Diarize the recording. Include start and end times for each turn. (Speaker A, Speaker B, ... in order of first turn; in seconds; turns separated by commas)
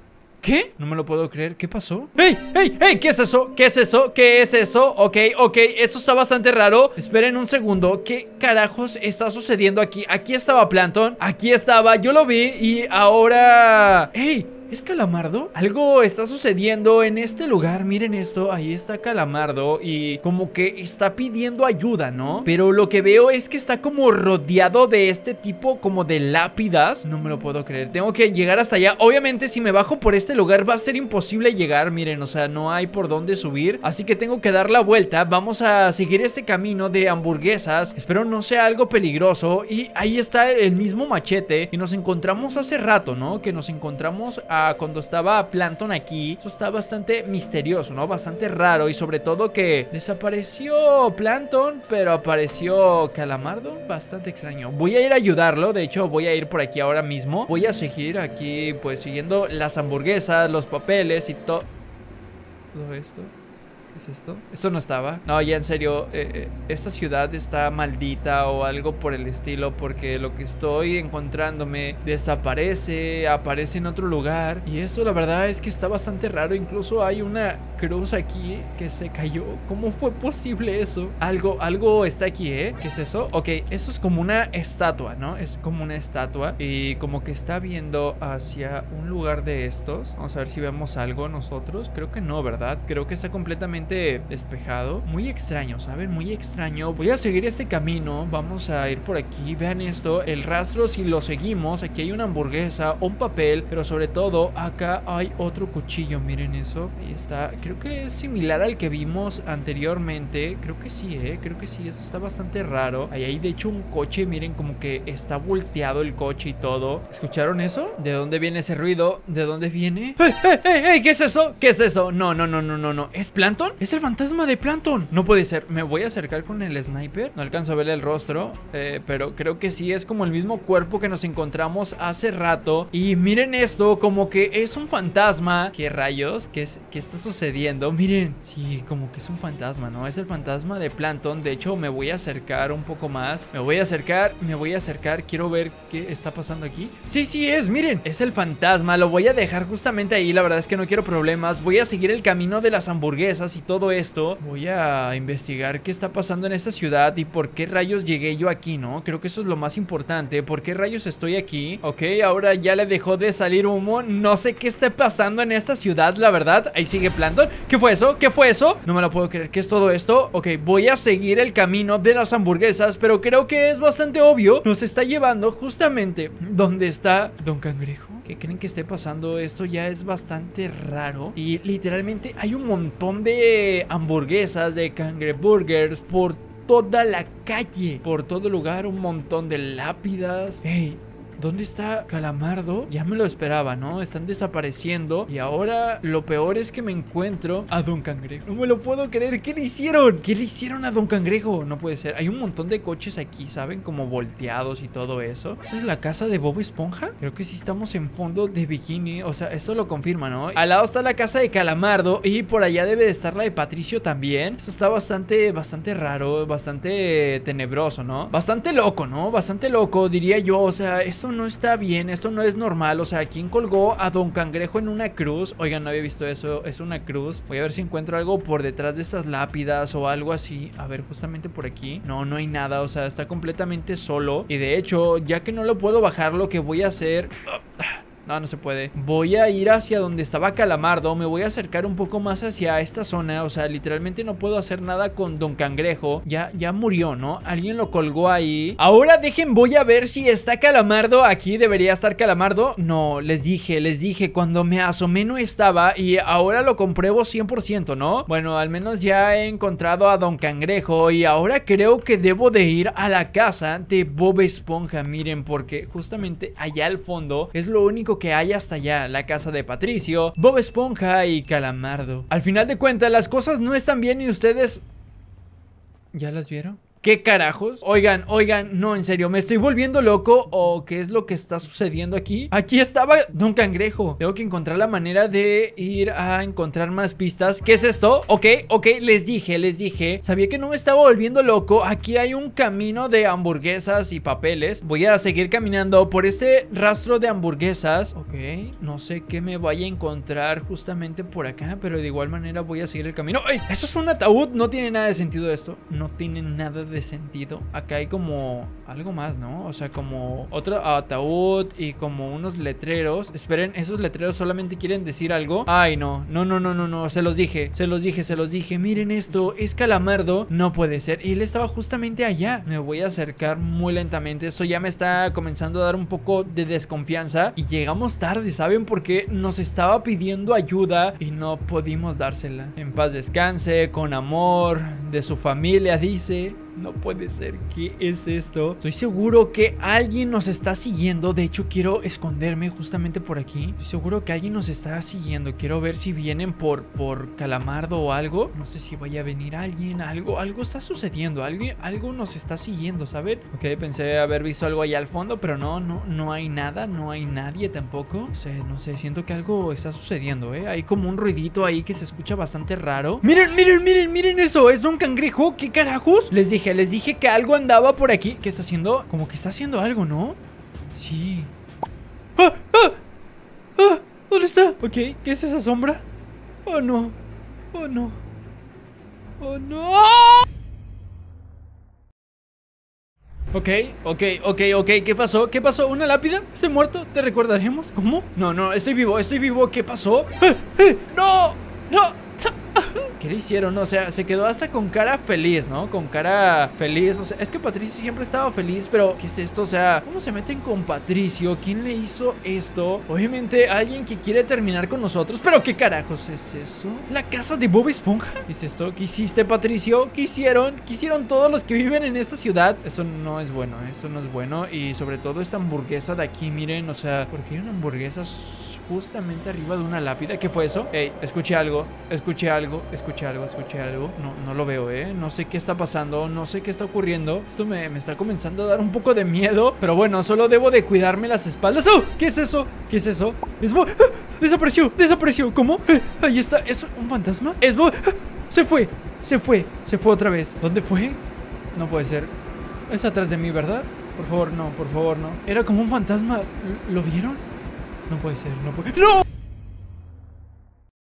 Speaker A: 0.4-61.7, Speaker A: 62.7-63.3, Speaker A: 63.9-274.8, Speaker A: 276.1-370.4, Speaker A: 370.9-371.5, Speaker A: 372.4-373.0, Speaker A: 373.8-376.0, Speaker A: 376.6-377.2, Speaker A: 377.7-378.2, Speaker A: 379.4-380.4, Speaker A: 383.5-441.2, Speaker A: 441.7-442.3, Speaker A: 442.9-447.4, Speaker A: 448.1-449.2